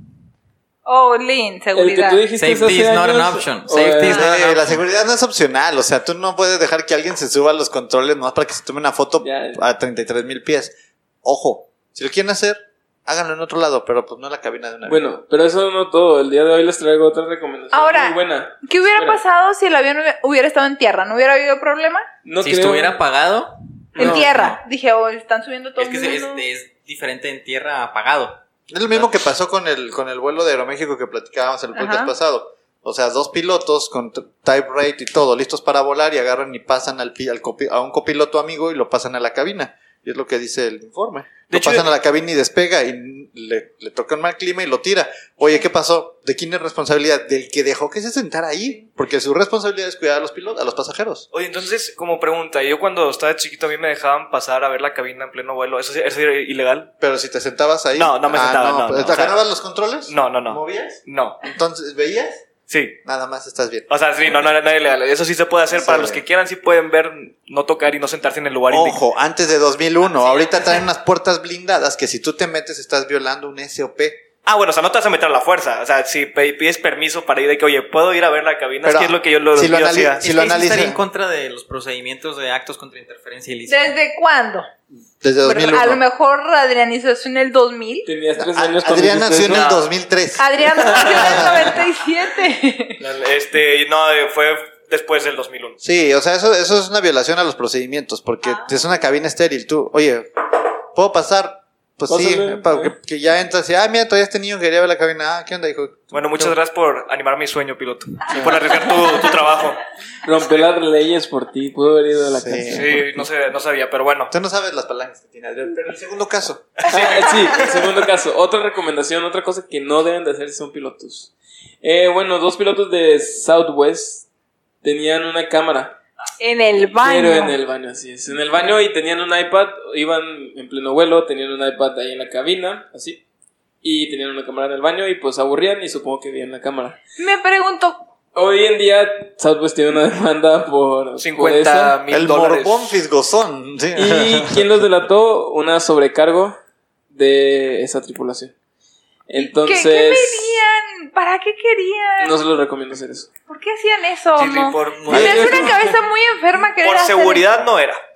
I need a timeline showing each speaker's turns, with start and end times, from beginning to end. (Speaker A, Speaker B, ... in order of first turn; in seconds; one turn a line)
Speaker A: 0.8-2.2
Speaker B: 1.7-4.3
Speaker C: 2.4-4.8
Speaker D: 4.1-15.1
Speaker B: 9.2-9.6
Speaker B: 14.9-19.2
Speaker A: 17.7-22.1
Speaker B: 22.2-23.0
Speaker C: 22.4-24.6
Speaker B: 23.9-24.3
Speaker A: 24.0-26.5
Speaker C: 25.8-29.1
Speaker D: 28.7-51.2
Speaker A: 31.7-32.1
Speaker E: 41.5-41.9
Speaker E: 51.3-56.9
Speaker D: 57.0-62.4
Speaker E: 58.0-59.4
Speaker E: 60.1-61.5
Speaker E: 62.7-63.0
Speaker D: 63.0-63.9
Speaker E: 63.9-69.0
Speaker D: 65.7-66.2
Speaker D: 68.7-74.2
Speaker E: 70.2-70.8
Speaker E: 74.5-80.2
Speaker D: 78.8-81.0
Speaker C: 80.2-83.9
Speaker A: 83.7-84.7
Speaker D: 85.2-86.0
Speaker A: 85.4-88.1
Speaker B: 88.0-89.7
Speaker D: 88.4-91.8
Speaker E: 89.5-89.9
Speaker A: 90.4-93.0
Speaker E: 91.0-91.7
Speaker E: 93.0-95.8
Speaker D: 95.8-100.3
Speaker D: 100.9-106.5
Speaker B: 102.1-102.9
Speaker E: 106.1-109.8
Speaker B: 110.2-113.1
Speaker D: 112.3-113.0
Speaker E: 112.7-114.3
Speaker D: 114.3-116.7
Speaker E: 116.8-117.7
Speaker B: 116.9-124.3
Speaker B: 124.8-126.0
Speaker A: 126.4-127.6
Speaker B: 127.0-133.2
Speaker B: 133.8-137.0
Speaker A: 137.2-138.1
Speaker B: 138.3-142.0
Speaker E: 141.2-143.0
Speaker D: 142.1-144.7
Speaker B: 143.9-146.6
Speaker B: 147.1-148.5
Speaker B: 149.3-150.5
Speaker A: 149.4-152.4
Speaker B: 152.2-153.3
Speaker A: 153.5-157.6
Speaker E: 154.4-155.6
Speaker C: 155.0-155.3
Speaker B: 155.1-155.9
Speaker D: 155.4-155.7
Speaker E: 156.8-158.0